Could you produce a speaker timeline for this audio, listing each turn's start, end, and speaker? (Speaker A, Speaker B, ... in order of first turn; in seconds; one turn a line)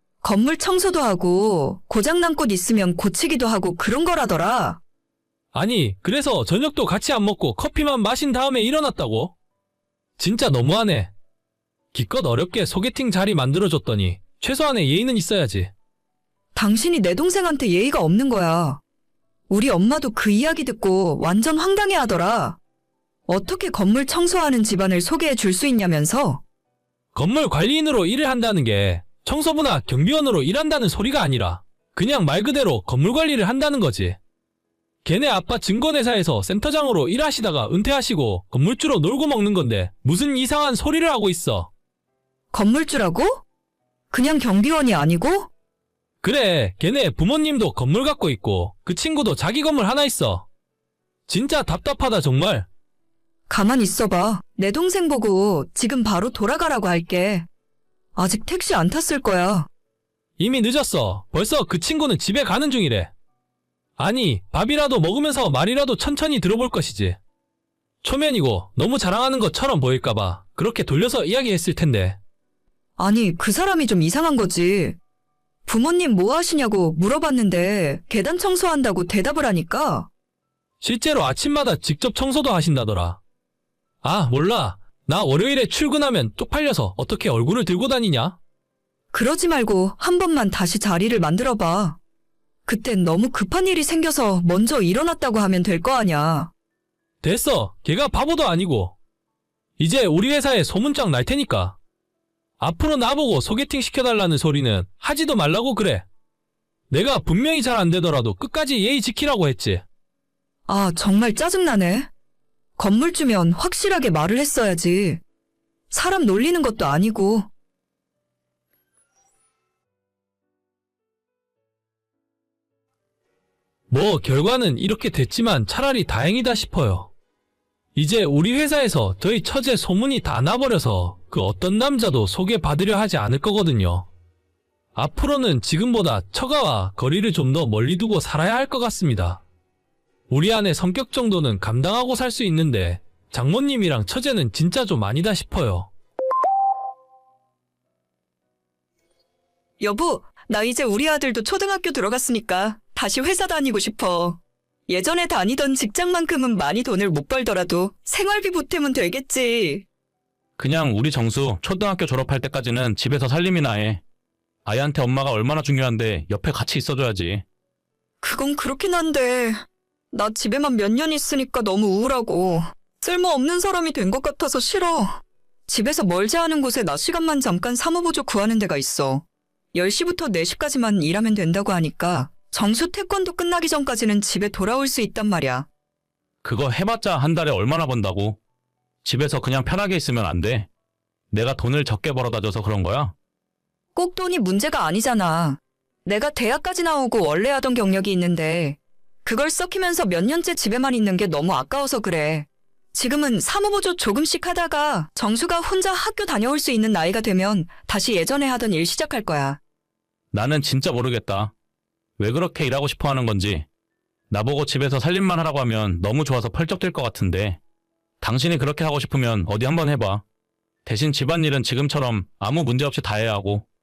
Speaker A: 0.2-4.8
Speaker B: 5.5-9.3
Speaker B: 10.2-11.1
Speaker B: 11.9-15.7
Speaker A: 16.6-18.8
Speaker A: 19.5-22.6
Speaker A: 23.3-26.4
Speaker B: 27.1-34.2
Speaker B: 35.0-41.7
Speaker A: 42.5-43.4
Speaker A: 44.1-45.5
Speaker B: 46.2-50.5
Speaker B: 51.3-52.7
Speaker A: 53.5-57.5
Speaker A: 58.2-59.7
Speaker B: 60.4-63.1
Speaker B: 64.0-67.2
Speaker B: 68.0-72.2
Speaker A: 73.0-75.0
Speaker A: 75.7-80.1
Speaker B: 80.8-83.2
Speaker B: 84.0-88.4
Speaker A: 89.1-92.0
Speaker A: 92.7-96.5
Speaker B: 97.2-99.0
Speaker B: 99.8-101.8
Speaker B: 102.6-106.0
Speaker B: 106.9-109.8
Speaker A: 110.7-112.1
Speaker A: 112.8-115.2
Speaker A: 115.9-117.5
Speaker B: 123.9-127.1
Speaker B: 128.0-134.1
Speaker B: 134.9-139.4
Speaker B: 140.3-145.9
Speaker A: 149.8-159.9
Speaker C: 160.6-164.0
Speaker C: 164.7-167.4
Speaker A: 168.2-185.7
Speaker C: 186.4-188.4
Speaker C: 189.0-190.7
Speaker C: 191.3-193.1
Speaker A: 193.9-209.6
Speaker C: 210.3-211.5
Speaker C: 212.2-213.7
Speaker C: 214.3-217.6
Speaker C: 218.2-220.2
Speaker C: 220.9-223.7